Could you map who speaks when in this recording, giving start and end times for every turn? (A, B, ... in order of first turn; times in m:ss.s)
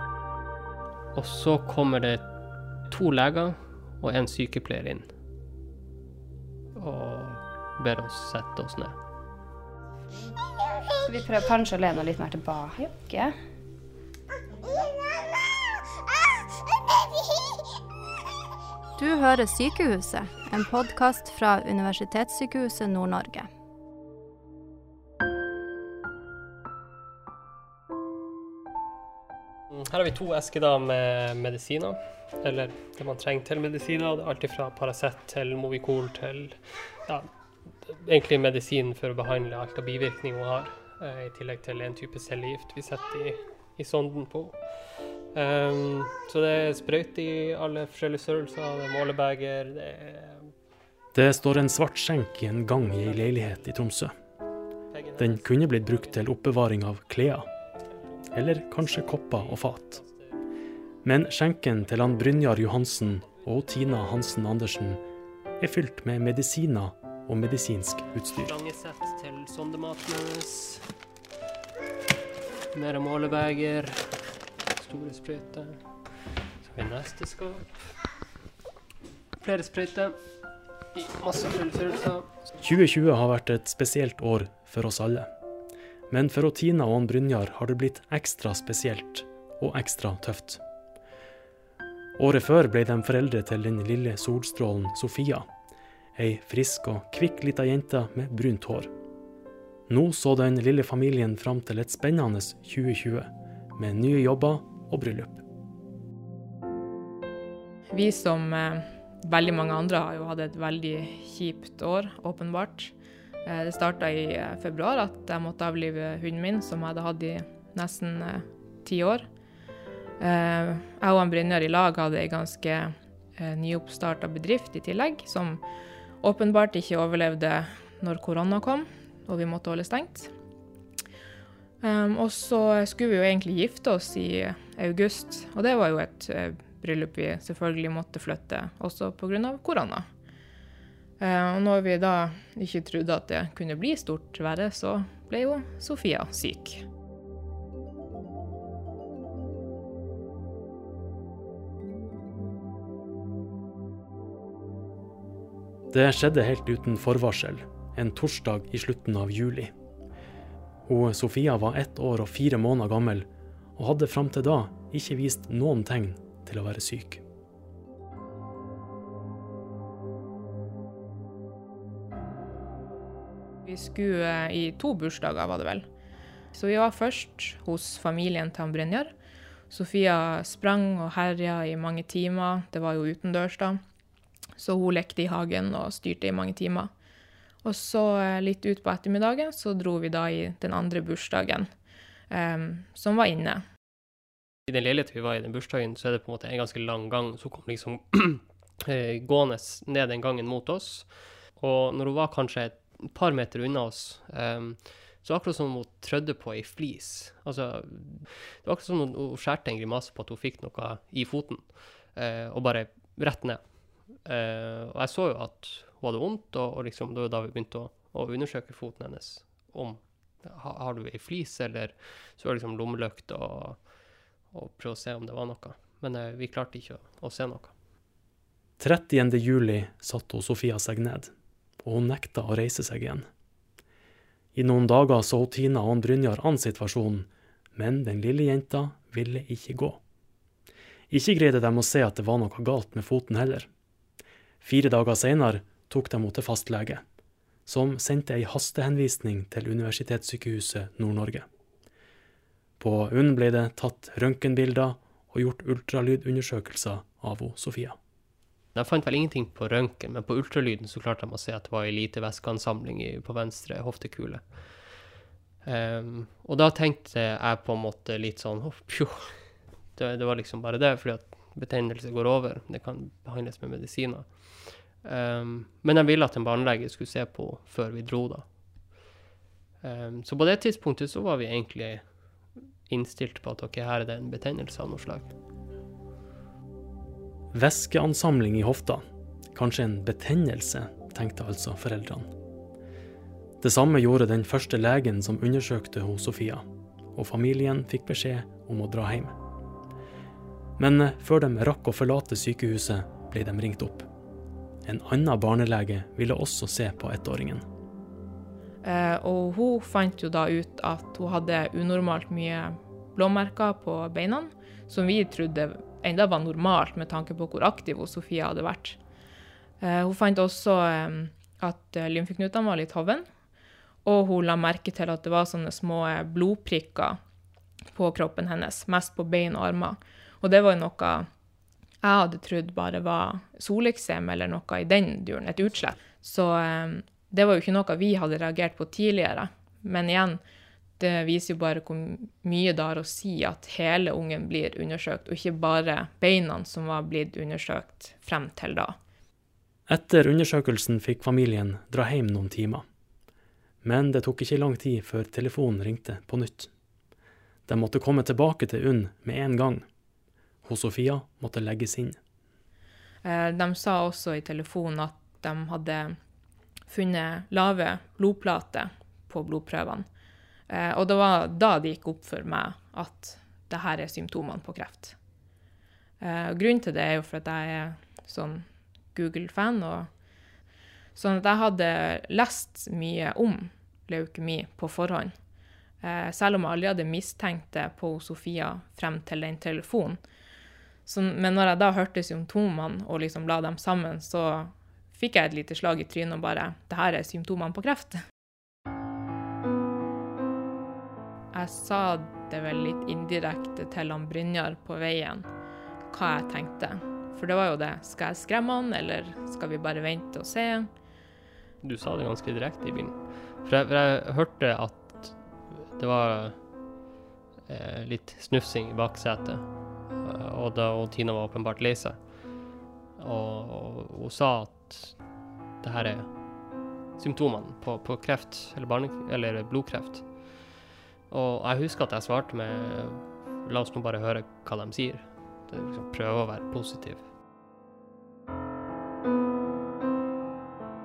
0:01.1-0:02.3 A
0:02.9-0:05.1 A
0:06.7-0:08.9 A
0:11.0-0:13.4 B
0:19.0-0:23.5 C
0:29.7-0:37.3 A
0:37.8-0:50.5 A
0:51.1-0:54.1 D
0:53.2-0:53.5 A
0:54.9-0:56.2 A
0:55.2-0:57.5 D
0:58.1-1:00.4 A
0:58.3-1:00.0 D
1:01.0-1:05.0 D
1:05.6-1:08.5 D
1:08.3-1:10.9 A
1:12.7-1:14.1 A
1:14.7-1:15.8 A
1:16.6-1:17.9 A
1:19.4-1:20.2 A
1:20.9-1:22.3 A
1:22.6-1:25.3 D
1:26.1-1:30.6 D
1:32.2-1:35.5 D
1:36.1-1:38.9 D
1:39.9-1:45.4 D
1:47.9-1:52.9 E
1:53.4-1:59.2 E
2:00.2-2:05.6 E
2:06.2-2:10.3 E
2:11.8-2:20.1 E
2:21.2-2:26.8 E
2:35.9-2:39.7 D
2:40.8-2:47.2 D
2:53.6-2:55.8 E
2:56.5-2:59.1 E
2:59.7-3:03.8 E
3:04.6-3:06.9 E
3:07.6-3:11.7 E
3:12.3-3:13.6 E
3:14.7-3:43.9 A
3:44.5-3:47.7 A
3:48.8-3:53.3 D
3:54.5-4:00.0 D
4:01.1-4:03.7 D
4:04.6-4:07.0 D
4:07.6-4:11.5 D
4:12.8-4:18.0 D
4:18.7-4:25.1 A
4:25.6-4:38.9 A
4:39.8-4:45.3 A
4:47.5-4:52.3 D
4:53.6-4:59.3 D
5:00.8-5:04.1 D
5:04.8-5:07.6 D
5:08.8-5:19.0 E
5:19.8-5:23.2 E
5:24.0-5:27.2 E
5:27.9-5:31.3 E
5:32.0-5:40.4 E
5:41.0-5:49.0 E
5:49.9-5:52.8 D
5:53.8-5:56.7 D
5:57.7-5:59.8 D
6:00.6-6:02.2 D
6:03.2-6:06.2 E
6:06.9-6:10.1 E
6:10.7-6:15.2 E
6:16.2-6:20.1 E
6:21.1-6:25.3 E
6:26.0-6:30.2 E
6:31.0-6:38.2 E
6:41.5-6:45.5 E
6:46.1-6:50.9 E
6:51.8-6:56.6 A
6:57.7-7:02.3 A
7:03.2-7:05.2 A
7:05.8-7:06.4 A
7:07.2-7:10.7 A
7:11.3-7:17.2 A